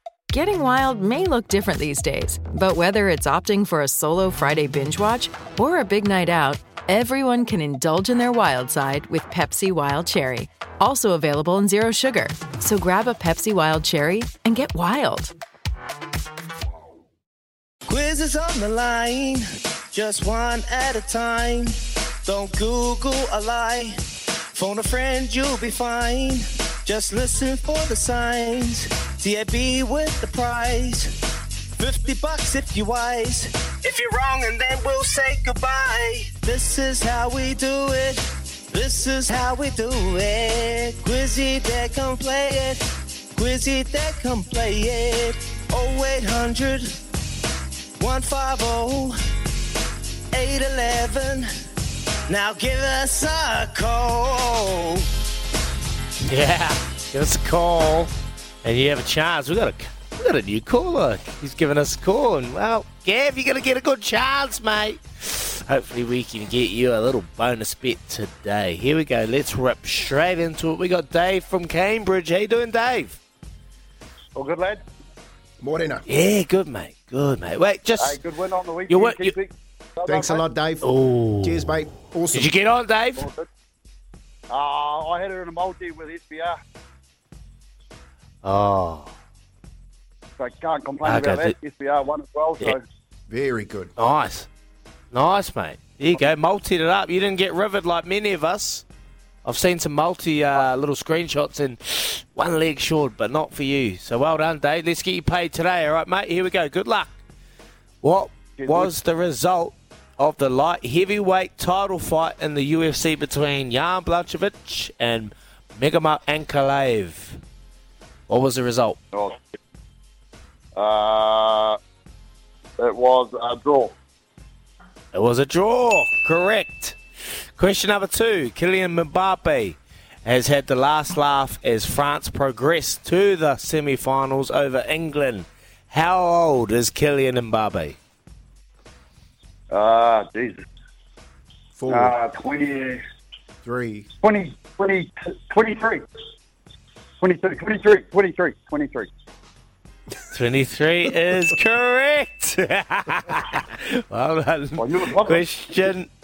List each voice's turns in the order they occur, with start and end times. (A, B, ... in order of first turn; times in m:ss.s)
0:00.3-0:15.3 A
0:17.9-0:24.0 B
0:24.5-0:31.1 B
0:31.8-0:46.9 B
0:48.0-0:49.2 B
0:50.3-0:51.5 B
0:52.3-0:55.1 B
0:56.2-0:58.1 C
0:58.6-1:13.2 C
1:14.3-1:14.8 D
1:15.6-1:16.0 E
1:16.1-1:18.2 C
1:18.0-1:20.4 D
1:18.9-1:19.3 C
1:20.0-1:20.9 E
1:20.8-1:21.8 C
1:21.4-1:22.5 E
1:22.3-1:23.2 C
1:23.2-1:23.5 D
1:24.5-1:26.6 D
1:28.4-1:29.1 C
1:30.4-1:32.8 D
1:31.0-1:31.6 C
1:33.3-1:33.9 E
1:34.0-1:34.5 C
1:35.1-1:38.8 C
1:39.4-1:47.2 C
1:48.0-1:57.4 C
1:48.6-1:48.9 D
1:58.3-1:59.0 C
1:59.1-1:59.4 D
2:00.7-2:01.8 D
2:02.8-2:04.0 D
2:05.1-2:07.0 C
2:07.6-2:18.0 C
2:19.7-2:20.6 D
2:21.8-2:22.1 E
2:21.9-2:23.0 D
2:23.6-2:24.1 E
2:24.2-2:26.0 D
2:27.2-2:29.1 D
2:30.3-2:36.1 C
2:34.8-2:35.4 D